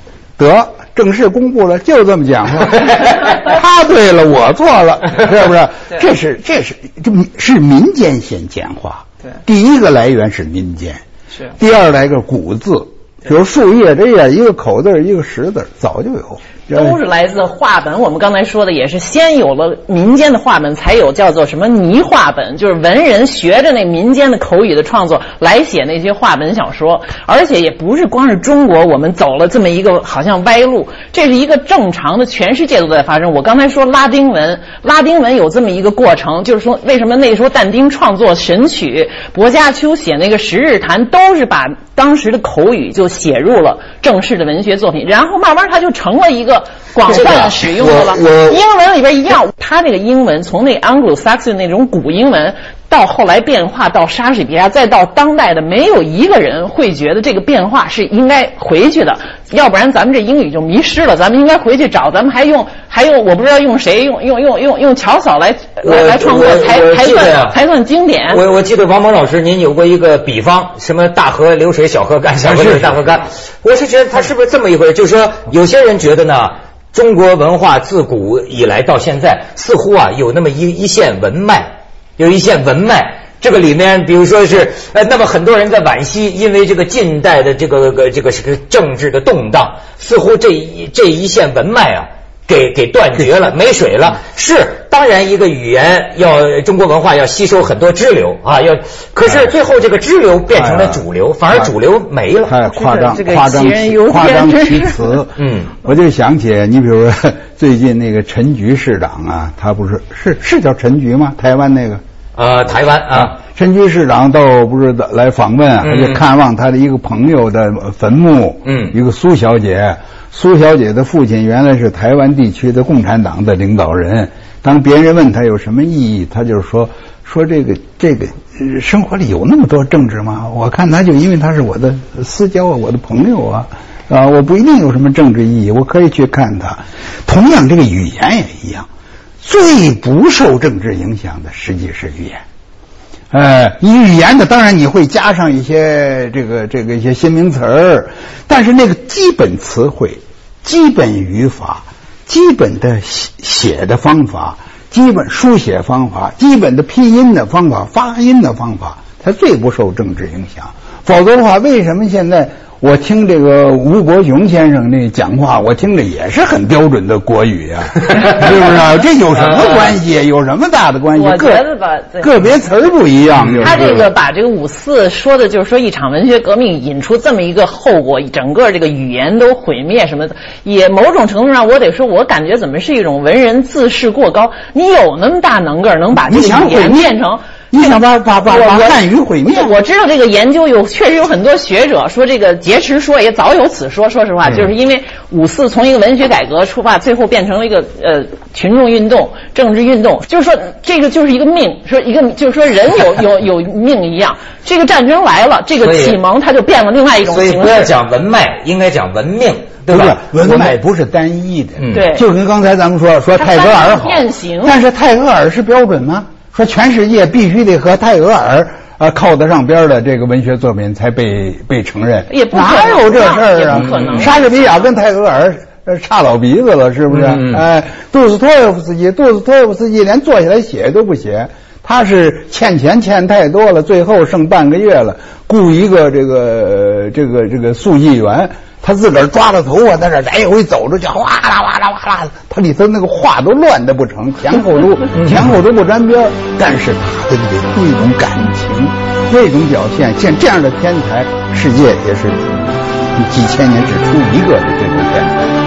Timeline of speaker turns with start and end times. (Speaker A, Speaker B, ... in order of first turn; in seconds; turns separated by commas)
Speaker A: 0.4-11.0, Speaker A: 11.5-17.0, Speaker B: 16.7-68.4, Speaker C: 47.1-48.6, Speaker C: 65.8-67.6, Speaker C: 68.3-102.6, Speaker A: 72.5-73.0, Speaker A: 100.5-101.0, Speaker A: 102.5-112.0, Speaker B: 102.7-105.2, Speaker C: 105.4-105.7, Speaker C: 112.4-113.3, Speaker A: 113.1-138.9, Speaker C: 115.8-116.2, Speaker C: 118.7-118.9, Speaker A: 139.4-142.4, Speaker A: 143.3-171.7, Speaker B: 171.1-172.3, Speaker A: 172.2-174.1, Speaker C: 173.4-173.9, Speaker B: 173.6-187.9, Speaker A: 186.3-187.1, Speaker A: 187.7-189.8, Speaker B: 188.5-207.9, Speaker C: 205.8-206.2, Speaker C: 207.2-210.8, Speaker A: 209.9-252.5, Speaker C: 211.8-212.1, Speaker B: 211.9-212.2, Speaker B: 213.4-214.8, Speaker B: 222.3-224.8, Speaker C: 223.7-224.3, Speaker C: 227.1-227.6, Speaker C: 245.2-245.5, Speaker A: 253.1-255.5